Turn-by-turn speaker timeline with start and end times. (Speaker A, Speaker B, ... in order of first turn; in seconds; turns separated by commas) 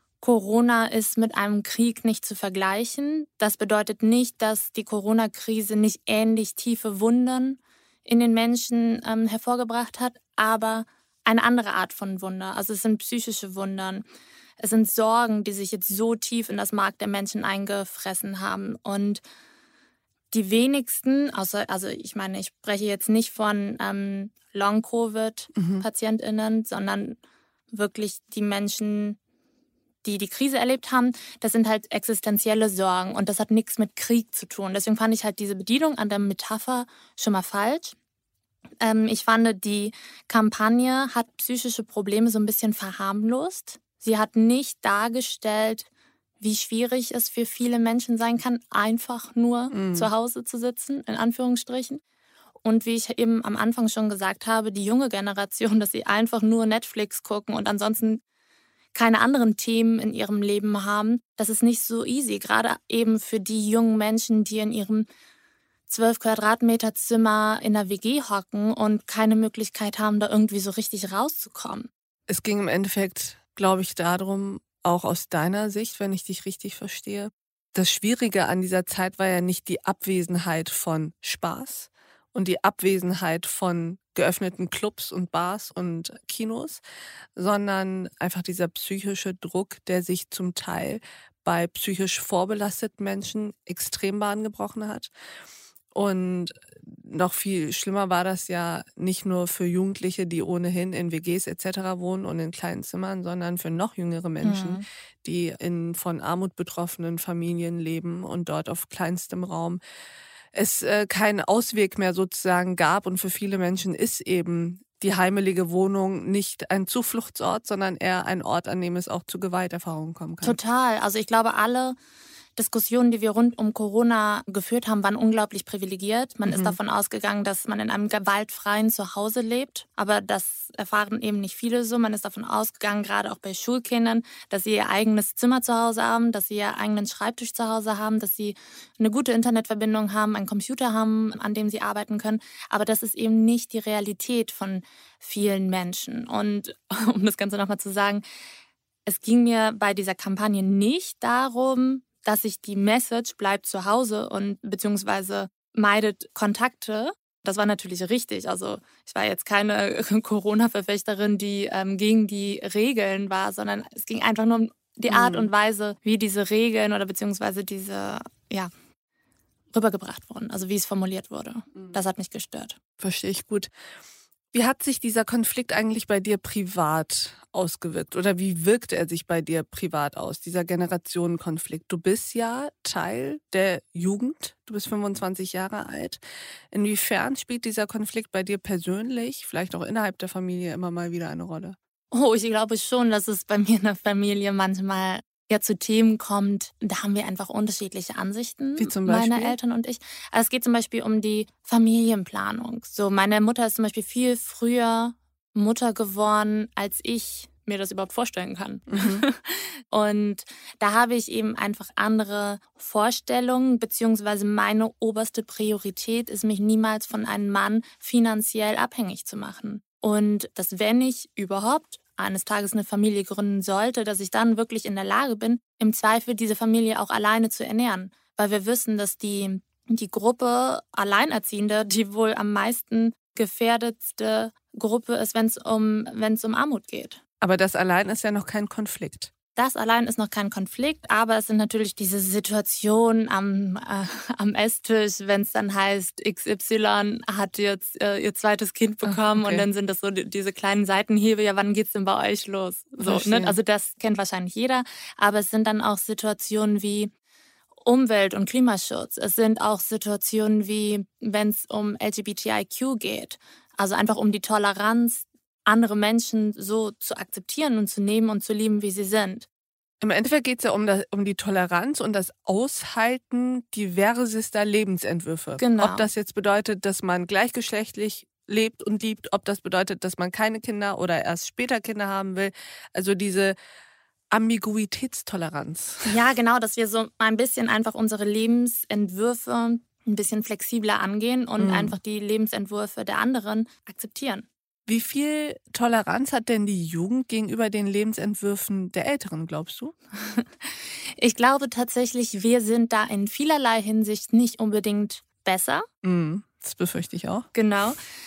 Speaker A: 0.2-14.0, Speaker A: 14.6-19.2, Speaker A: 20.3-27.2, Speaker B: 25.5-25.8, Speaker A: 27.7-29.2, Speaker A: 30.0-37.9, Speaker A: 38.8-45.9, Speaker A: 46.4-52.0, Speaker B: 49.7-50.1, Speaker A: 52.6-58.2, Speaker A: 58.9-65.1, Speaker A: 65.9-71.9, Speaker B: 72.3-86.8, Speaker B: 87.3-95.1, Speaker B: 95.9-109.8, Speaker A: 104.4-104.8, Speaker B: 110.5-120.6, Speaker A: 120.4-122.0, Speaker A: 122.5-148.2, Speaker B: 126.5-126.8, Speaker A: 149.1-168.7, Speaker B: 165.1-165.5, Speaker A: 169.7-172.8, Speaker B: 173.0-173.7, Speaker B: 174.5-191.8, Speaker A: 192.1-237.2, Speaker B: 198.8-199.6, Speaker B: 208.9-209.2, Speaker B: 237.4-239.3, Speaker A: 239.5-257.1, Speaker B: 249.0-249.7, Speaker B: 253.0-253.6, Speaker A: 257.8-269.5, Speaker B: 270.0-283.6, Speaker A: 275.6-276.1, Speaker B: 284.3-286.1, Speaker A: 286.1-294.4, Speaker B: 291.6-291.9, Speaker B: 294.9-299.9, Speaker A: 300.2-305.9, Speaker B: 306.0-307.5, Speaker A: 307.5-308.0